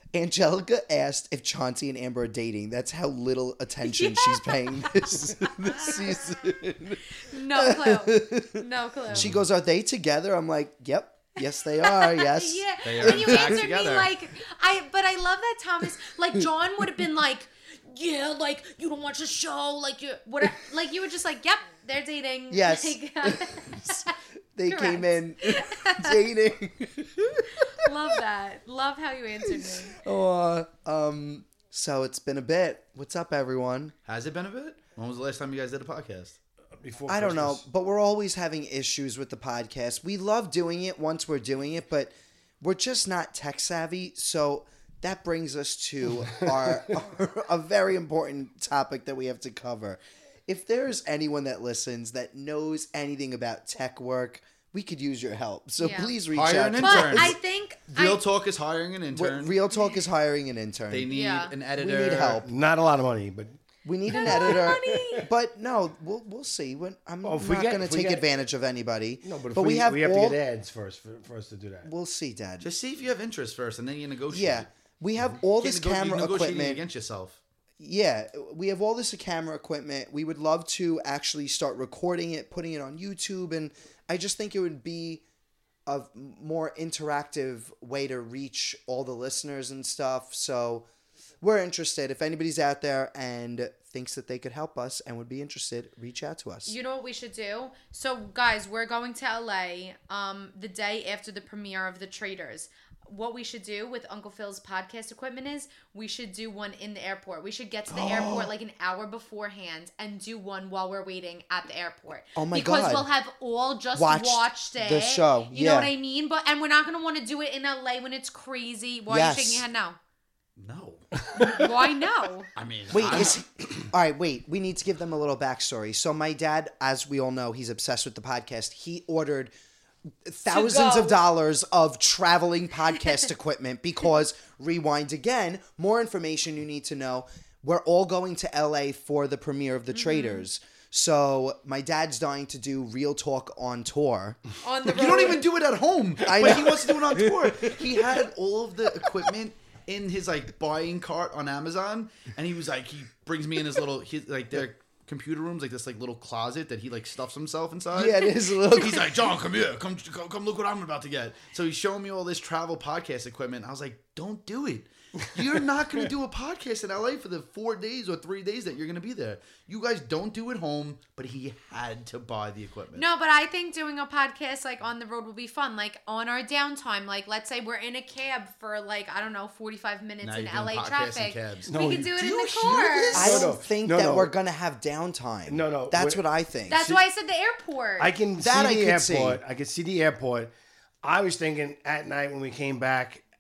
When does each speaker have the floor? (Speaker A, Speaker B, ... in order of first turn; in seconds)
Speaker A: 0.1-7.0, 7.5-13.6, 22.5-27.9, 29.5-33.9, 37.1-57.4, 59.1-62.5, 63.8-70.4, 71.8-72.7, 74.3-76.8, 77.8-85.2, 85.8-90.8, 91.4-96.8, 107.9-108.5, 112.3-113.1, 113.9-115.9, 119.1-119.7, 122.9-129.5, 130.2-144.4, 146.2-148.3, 157.9-159.3, 182.7-186.9, 188.4-189.4
Speaker B: 3.8-6.4, 7.2-9.3, 11.8-24.2, 24.7-26.2, 27.6-29.9, 55.8-56.1, 56.8-58.2, 59.7-60.0, 61.1-61.5, 64.1-65.3, 96.7-120.0, 121.4-122.5, 130.5-131.2, 139.9-140.5, 144.6-145.4, 172.9-183.2, 186.7-188.1
Speaker C: 9.1-9.4, 12.8-14.1, 34.0-36.4, 56.3-59.6, 60.9-62.4, 72.6-77.4, 120.6-121.2, 122.5-123.9, 144.9-173.1, 180.2-183.5
Speaker D: 36.8-37.6, 46.1-46.9, 62.4-63.5, 64.2-65.1, 67.2-68.2, 69.2-71.9, 181.7-182.1, 183.1-184.3, 185.5-186.2, 188.0-190.5, 191.0-193.2